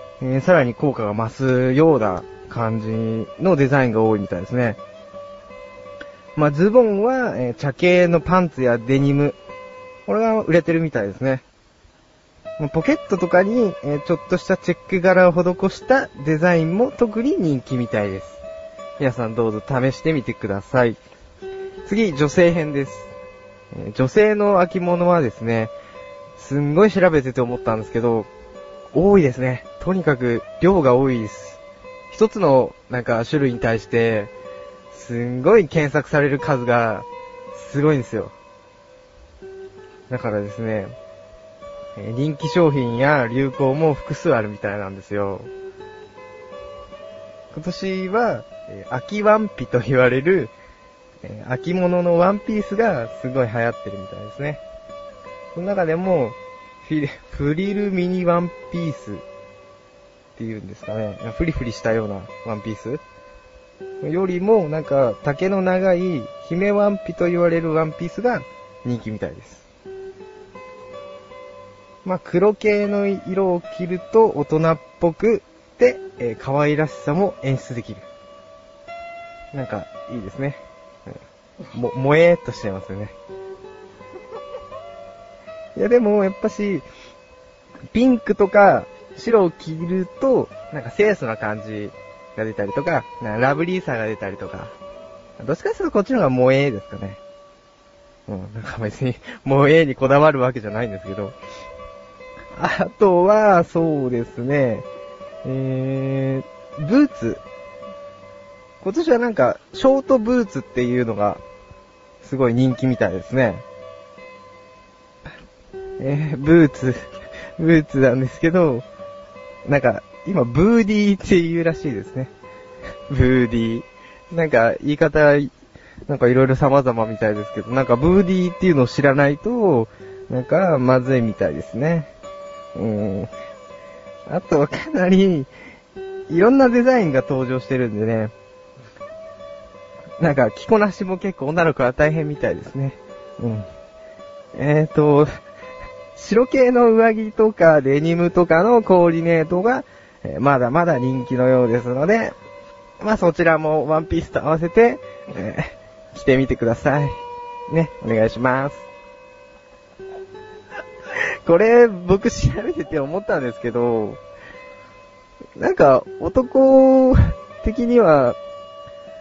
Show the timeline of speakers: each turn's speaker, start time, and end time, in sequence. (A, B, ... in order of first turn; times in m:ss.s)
0:00.2-0:04.8 A
0:06.4-0:09.4 A
0:10.1-0:11.4 A
0:12.6-0:18.4 A
0:19.0-0:21.0 A
0:21.8-0:23.1 A
0:23.7-0:25.7 A
0:26.4-0:28.3 A
0:28.9-0:34.3 A
0:34.9-0:38.3 A
0:40.1-0:40.9 A
0:42.0-0:45.5 A
0:47.5-0:50.5 A
0:51.2-0:54.6 A
0:55.5-0:59.2 A
1:00.4-1:03.0 A
1:04.0-1:09.6 A
1:12.0-1:18.0 A
1:19.5-1:21.1 A
1:21.7-1:23.1 A
1:25.8-1:26.8 A
1:27.9-1:34.7 A
1:35.4-1:37.2 A
1:38.3-1:41.4 A
1:42.5-1:44.8 A
1:45.4-1:47.4 A
1:48.8-1:51.4 A
1:52.2-1:53.6 A
1:56.0-1:58.8 A
1:59.6-2:02.3 A
2:03.1-2:05.5 A
2:06.1-2:12.1 A
2:12.7-2:13.3 A
2:14.3-2:15.5 A
2:16.3-2:18.3 A
2:20.2-2:23.6 A
2:24.5-2:25.3 A
2:26.2-2:32.3 A
2:33.0-2:38.8 A
2:41.4-2:44.2 A
2:45.6-2:48.4 A